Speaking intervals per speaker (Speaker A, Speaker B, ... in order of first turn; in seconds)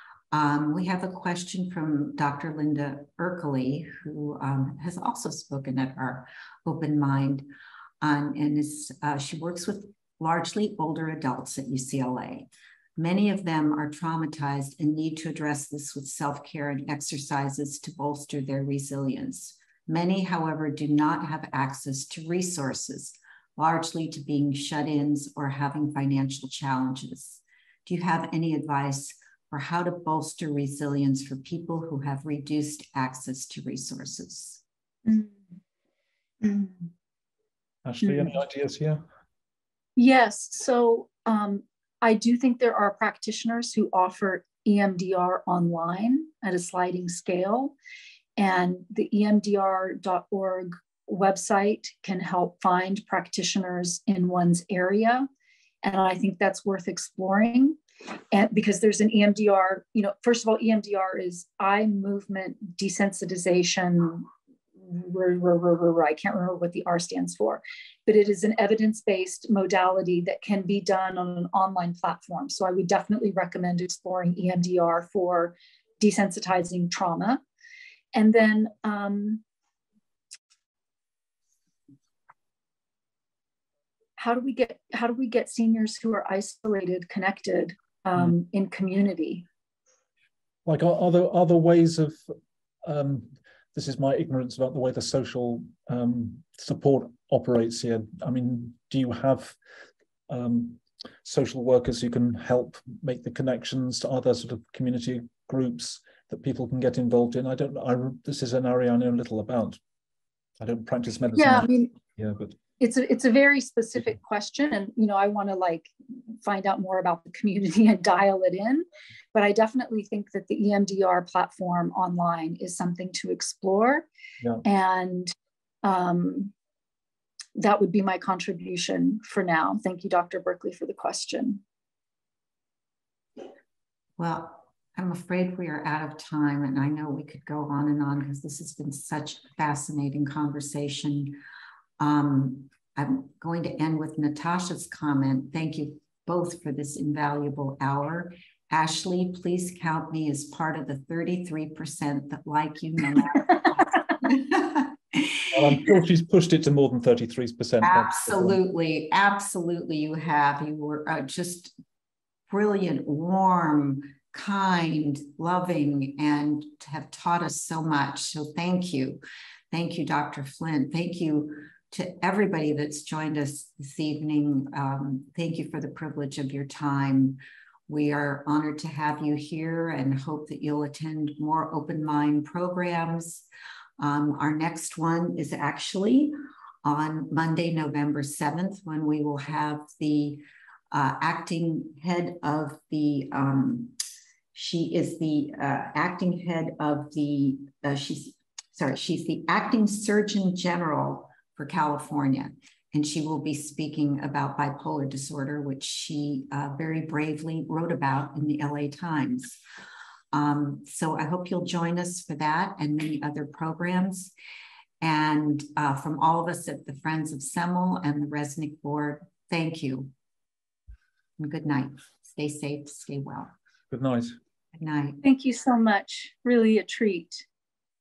Speaker A: 0.3-7.5, 8.0-34.6, 134.2-141.4, 142.0-155.6, 157.8-161.8, 162.5-183.5, 184.0-194.0, 194.5-209.6, 210.3-214.3, 215.0-220.1, 221.4-223.5, 224.7-225.2
Speaker B: 35.1-35.4, 36.4-36.9, 38.0-38.3, 40.0-47.8, 48.4-55.3, 55.8-57.8, 58.3-64.3, 64.8-77.4, 78.1-79.4, 84.2-89.5, 111.4-112.0, 112.8-124.1, 124.6-125.3, 125.8-126.5, 127.6-131.6, 225.2-227.4
Speaker C: 37.9-39.0, 90.7-92.2, 92.8-99.6, 100.3-109.8, 110.6-112.6, 155.5-158.6, 223.9-224.4